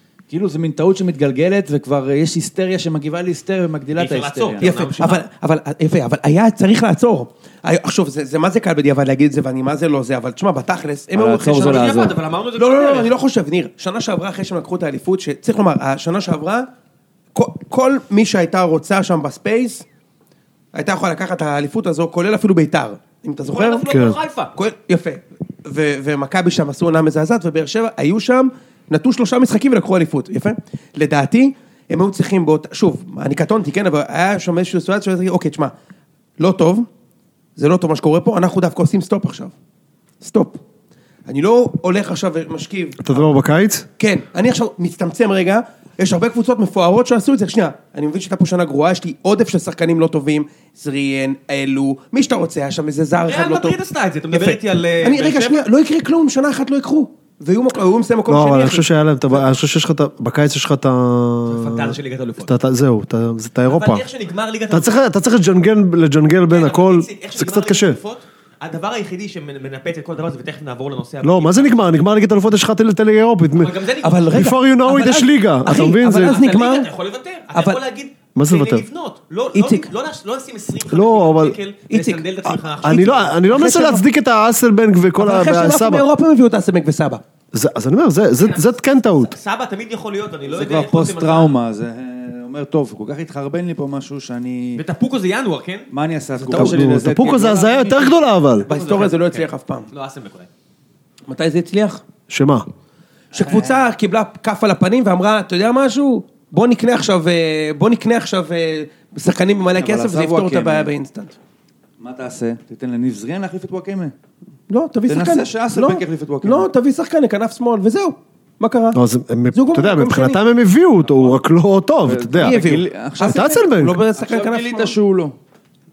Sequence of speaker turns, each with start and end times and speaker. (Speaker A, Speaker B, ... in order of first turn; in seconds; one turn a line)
Speaker A: 0.3-4.7
Speaker B: 4.0-5.2
Speaker C: 4.6-12.0
Speaker A: 11.1-12.2
Speaker B: 11.5-13.1
Speaker C: 12.6-16.7
Speaker C: 17.4-19.9
Speaker C: 20.7-23.9
Speaker B: 23.5-24.6
Speaker D: 23.9-24.2
Speaker C: 24.6-35.7
Speaker C: 36.4-36.9
Speaker C: 37.6-39.5
Speaker C: 40.2-40.6
Speaker C: 41.3-43.3
Speaker D: 43.0-43.9
Speaker C: 44.0-53.8
Speaker B: 53.2-55.6
Speaker C: 54.3-58.9
Speaker D: 58.3-64.1
Speaker B: 61.5-62.5
Speaker B: 63.7-65.0
Speaker D: 64.7-68.0
Speaker B: 66.5-72.0
Speaker D: 71.2-73.8
Speaker B: 73.5-74.5
Speaker C: 74.0-76.9
Speaker D: 74.3-76.4
Speaker B: 75.8-83.4
Speaker C: 77.5-77.8
Speaker D: 78.3-78.8
Speaker C: 79.5-79.9
Speaker D: 80.9-81.6
Speaker C: 81.9-82.2
Speaker D: 82.8-86.0
Speaker C: 83.5-84.0
Speaker C: 85.2-87.2
Speaker D: 87.5-89.3
Speaker B: 88.4-91.6
Speaker A: 90.5-94.8
Speaker B: 94.8-95.9
Speaker A: 95.9-98.2
Speaker C: 96.4-96.8
Speaker D: 96.5-98.7
Speaker B: 98.6-100.5
Speaker C: 98.7-99.9
Speaker C: 101.3-102.0
Speaker D: 102.3-102.7
Speaker C: 103.3-111.4
Speaker A: 103.3-103.8
Speaker A: 109.8-110.9
Speaker A: 112.0-114.1
Speaker C: 114.7-119.0
Speaker A: 115.1-116.7
Speaker D: 118.9-122.6
Speaker C: 119.5-120.4
Speaker A: 122.0-125.4
Speaker C: 122.4-125.0
Speaker D: 123.3-124.0